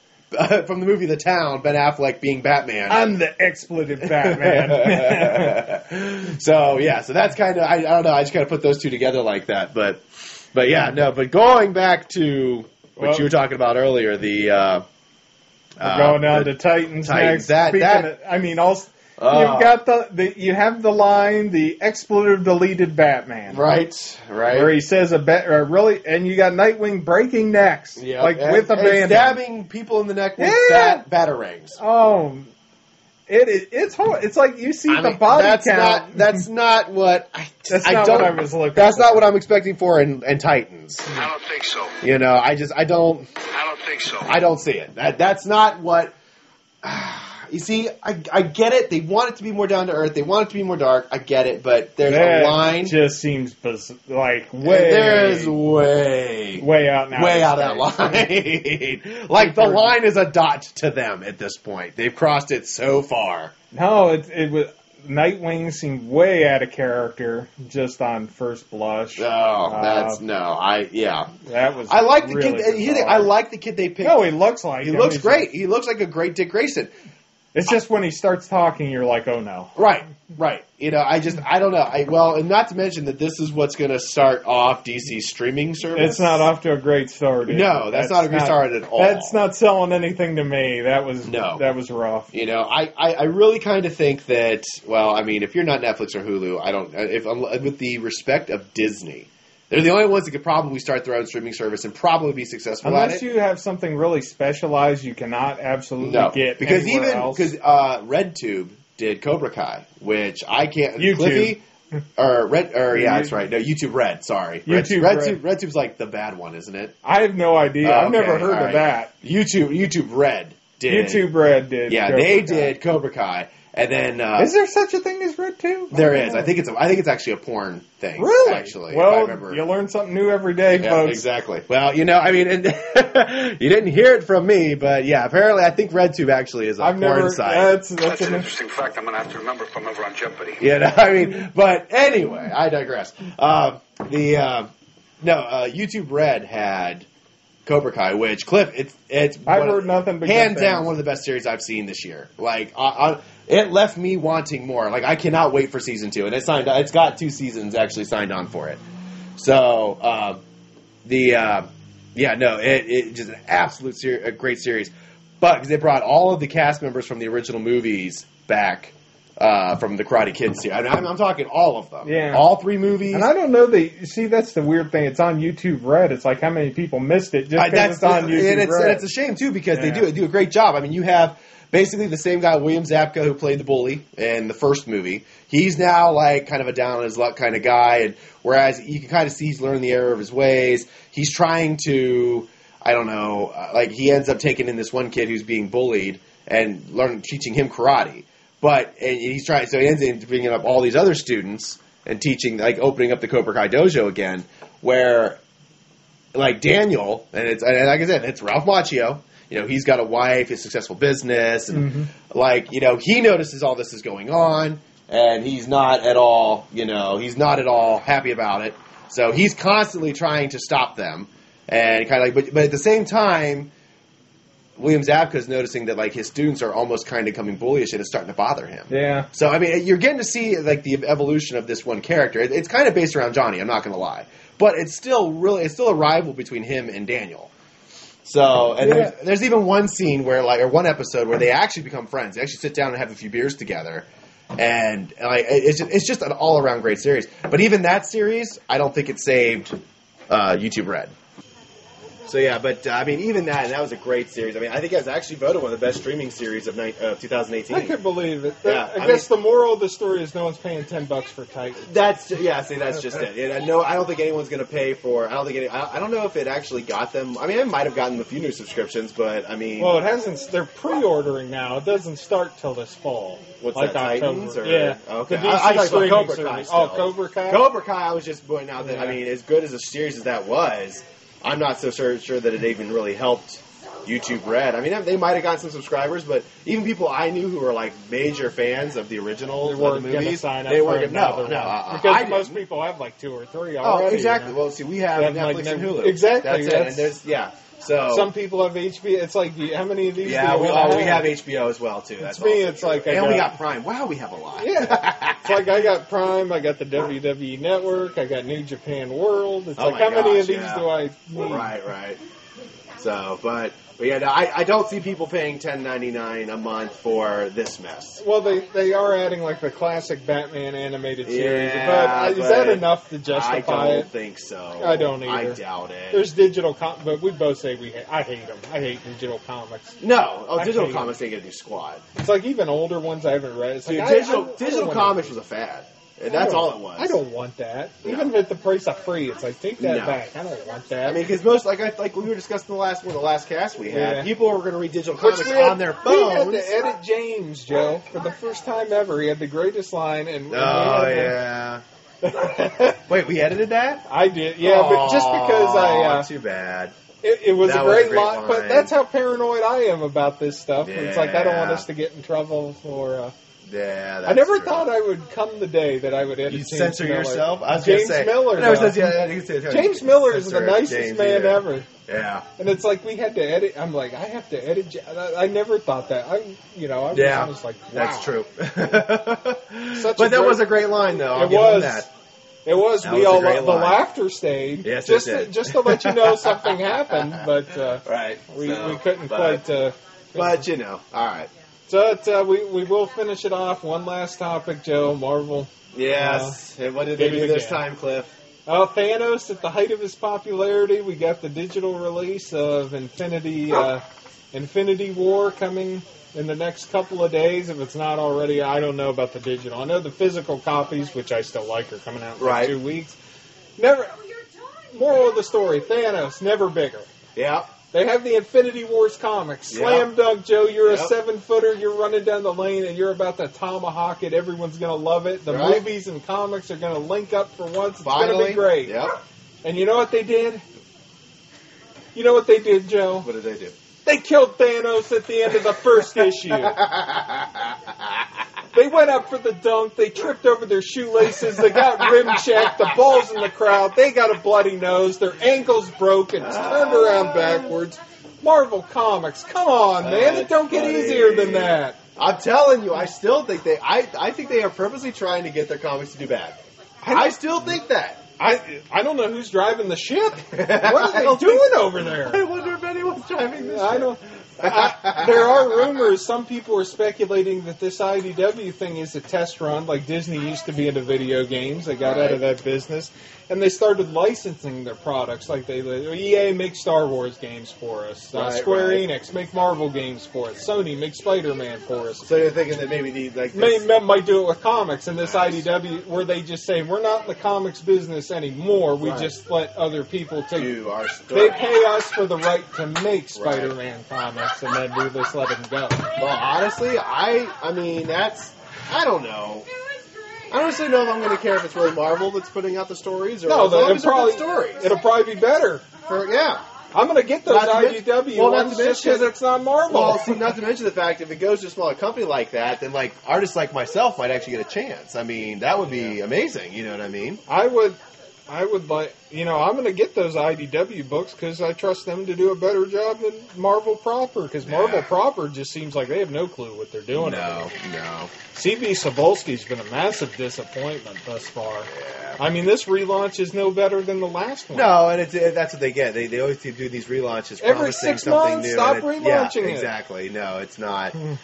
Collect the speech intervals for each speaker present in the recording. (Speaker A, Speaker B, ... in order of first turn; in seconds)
Speaker A: 0.3-3.0, 4.0-14.8, 15.8-18.1, 19.2-19.8, 23.5-24.7, 28.0-31.8, 34.9-41.1, 42.0-43.3, 44.2-46.1, 46.8-52.9, 54.6-63.5, 69.2-71.3, 71.9-74.3, 74.8-76.9, 79.8-86.5, 87.4-89.4, 91.2-91.6, 92.3-103.2, 106.0-111.6, 112.2-117.0, 117.8-121.3, 121.9-124.5, 125.9-129.6, 130.7-137.8, 140.6-144.7, 145.2-147.1, 147.6-158.8, 159.4-160.4, 161.0-173.3, 177.6-205.4, 206.3-223.7, 224.8-237.5, 238.2-249.8, 250.3-251.1, 252.2-257.9, 258.6-259.3, 261.8-270.0, 273.6-292.6, 293.8-298.3, 300.2-305.7, 309.8-310.9, 311.4-312.2, 313.0-318.2, 321.2-326.3, 330.0-332.0, 333.8-337.2, 338.0-338.3, 339.8-340.2, 341.0-346.8, 350.5-351.8, 352.4-354.0, 354.6-356.9, 357.6-358.9, 360.8-361.9, 363.7-364.9, 366.5-372.5, 377.1-382.1, 383.0-384.0, 384.8-387.4, 388.0-389.6, 390.3-391.5, 395.9-398.3, 412.4-412.8, 417.3-417.7, 419.7-420.1, 420.8-421.1, 425.5-425.8, 428.0-429.1, 433.2-433.7, 436.5-438.2, 442.0-442.9, 446.4-447.7, 450.0-456.6, 457.1-458.2, 460.5-466.0, 472.0-472.4, 478.3-479.0, 482.2-483.8, 485.2-485.6, 489.0-489.3, 490.5-491.7, 493.3-493.7, 496.2-499.7, 500.5-504.9, 506.0-506.6, 507.4-509.3, 509.9-517.4, 524.6-525.1, 527.1-528.3, 531.9-532.4, 534.7-541.1
Speaker B: 2.9-5.7, 13.0-13.3, 15.8-23.8, 24.5-29.4, 30.4-31.0, 31.8-32.5, 33.3-36.4, 37.7-39.3, 52.0-55.5, 56.6-58.3, 59.4-59.9, 63.7-70.2, 71.4-73.3, 74.0-75.5, 77.5-79.7, 85.9-92.3, 102.8-107.5, 111.0-111.5, 112.9-113.3, 114.7-115.4, 117.0-119.1, 120.9-122.7, 124.4-126.5, 128.2-131.2, 136.8-138.5, 149.5-150.9, 172.0-172.4, 173.1-179.0, 179.7-180.0, 211.7-212.1, 228.9-229.3, 238.8-239.1, 257.7-261.9, 269.8-277.7, 278.8-279.2, 289.6-294.6, 295.1-297.1, 298.1-301.3, 302.2-303.6, 304.6-311.7, 318.2-324.1, 324.8-325.6, 326.1-330.0, 330.6-331.1, 332.1-335.3, 336.3-341.2, 343.9-344.3, 345.2-351.4, 352.3-352.7, 354.1-356.3, 357.2-363.3, 364.2-371.9, 372.6-378.4, 379.9-382.1, 382.6-390.7, 391.9-396.6, 397.1-397.8, 398.6-413.2, 413.8-414.2, 414.9-417.1, 417.9-429.0, 429.6-430.6, 432.1-433.3, 434.0-436.8, 438.7-452.0, 457.0-457.4, 458.4-462.4, 463.6-482.3, 483.5-490.8, 491.3-496.1, 503.4-505.9, 506.9-510.5, 517.5-527.7, 528.5-535.0, 537.6-539.9
Speaker C: 41.1-42.0, 43.5-44.3, 138.0-140.6